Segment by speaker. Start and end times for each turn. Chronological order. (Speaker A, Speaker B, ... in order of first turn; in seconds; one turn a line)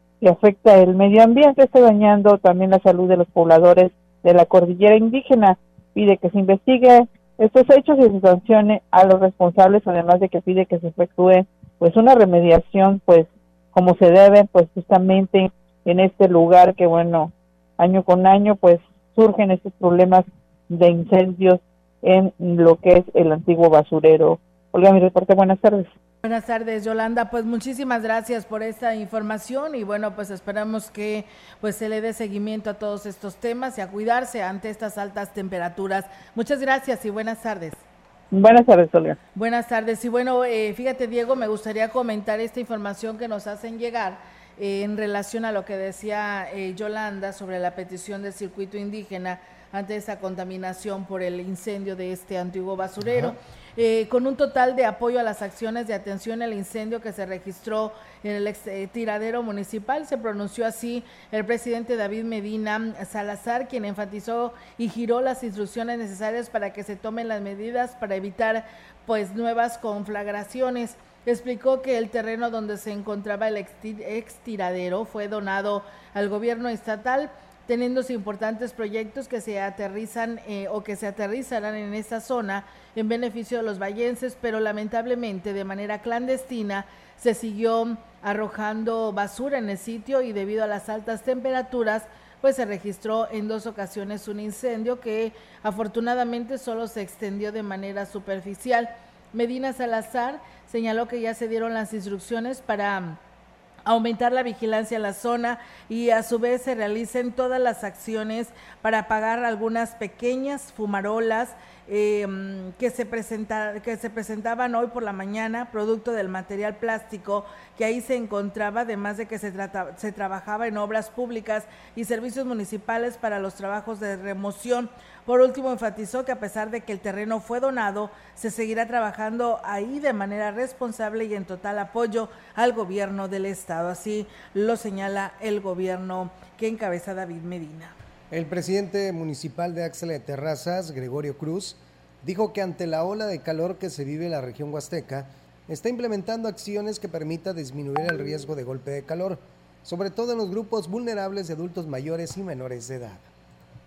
Speaker A: 0.2-25.9
Speaker B: 26.2-37.8
Speaker A: 38.3-39.2
Speaker B: 39.4-103.2
Speaker C: 53.0-53.3
Speaker B: 103.9-137.9
Speaker C: 138.3-153.3